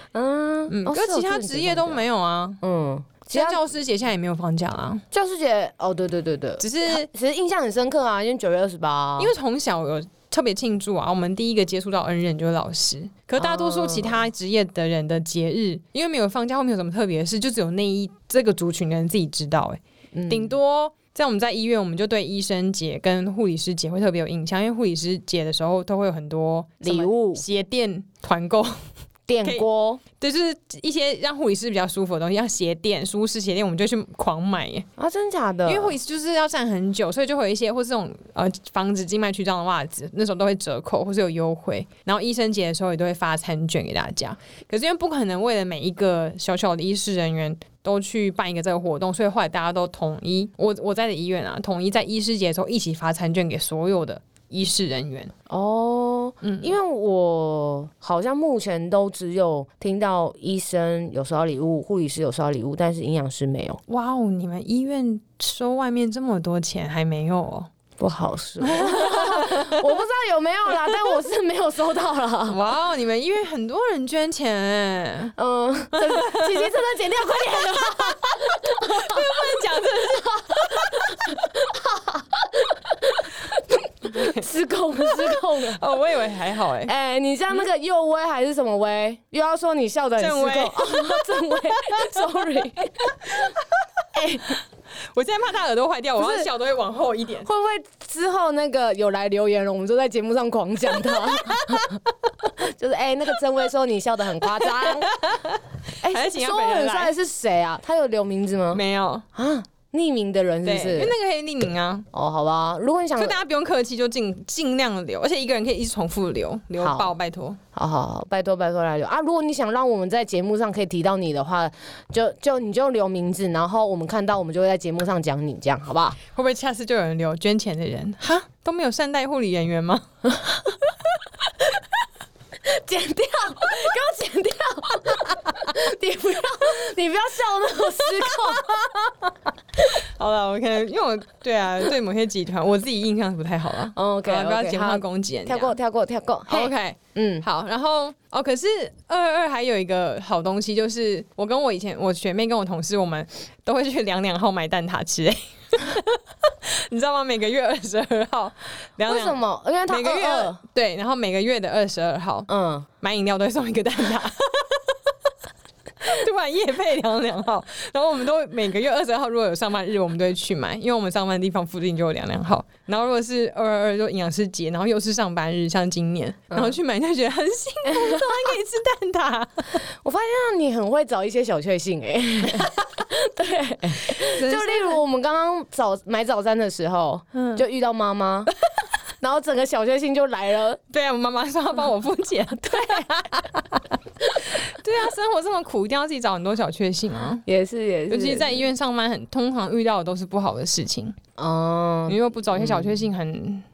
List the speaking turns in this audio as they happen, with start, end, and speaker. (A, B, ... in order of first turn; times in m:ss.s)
0:00.1-0:02.0 A
0:00.7-0:02.6 B
0:02.6-0:03.6 A
0:03.3-0:05.0 B
0:05.1-0:09.3 A
0:06.6-0:07.1 B
0:09.2-0:28.7 B
0:13.4-0:14.2 A
0:20.1-0:20.6 A
0:26.8-0:27.4 A
0:29.3-0:30.0 A
0:29.4-0:34.9 B
0:35.0-0:36.0 A
0:35.6-0:55.3 B
0:55.5-1:03.8 A
0:56.4-0:56.8 B
1:03.9-1:07.7 B
1:08.0-1:12.6 A
1:08.6-1:10.0 B
1:10.9-1:11.2 B
1:12.5-1:15.3 B
1:15.4-1:19.5 A
1:15.9-1:16.7 B
1:18.6-1:21.3 B
1:20.2-1:25.8 A
1:24.1-1:24.4 B
1:25.0-1:26.9 B
1:26.8-1:33.5 A
1:30.2-1:33.8 B
1:34.1-1:34.6 A
1:35.1-1:37.5 B
1:36.2-1:36.5 A
1:37.4-1:42.0 A
1:41.1-1:41.8 B
1:42.6-1:45.1 A
1:44.6-1:47.1 B
1:46.0-1:48.8 A
1:48.7-1:49.2 B
1:49.3-1:51.1 A
1:50.6-1:52.0 B
1:52.1-1:53.4 A
1:53.2-1:57.6 B
1:56.8-1:57.1 A
1:57.7-2:06.2 A
2:06.3-2:10.0 B
2:12.6-2:18.9 A
2:18.0-2:18.8 B
2:19.9-2:25.8 B
2:23.9-2:27.4 A
2:26.5-2:42.5 B
2:39.0-2:40.6 A
2:42.5-2:42.9 A
2:43.0-2:45.0 B
2:46.0-2:59.8 B
2:56.5-2:56.8 A
2:57.9-2:58.2 A
3:00.0-3:08.5 A
3:04.1-3:05.0 B
3:07.3-3:07.6 B
3:09.2-3:10.8 A
3:10.9-3:17.4 B
3:17.4-3:18.6 A
3:18.1-3:21.2 B
3:21.4-3:23.0 A
3:22.1-3:23.6 B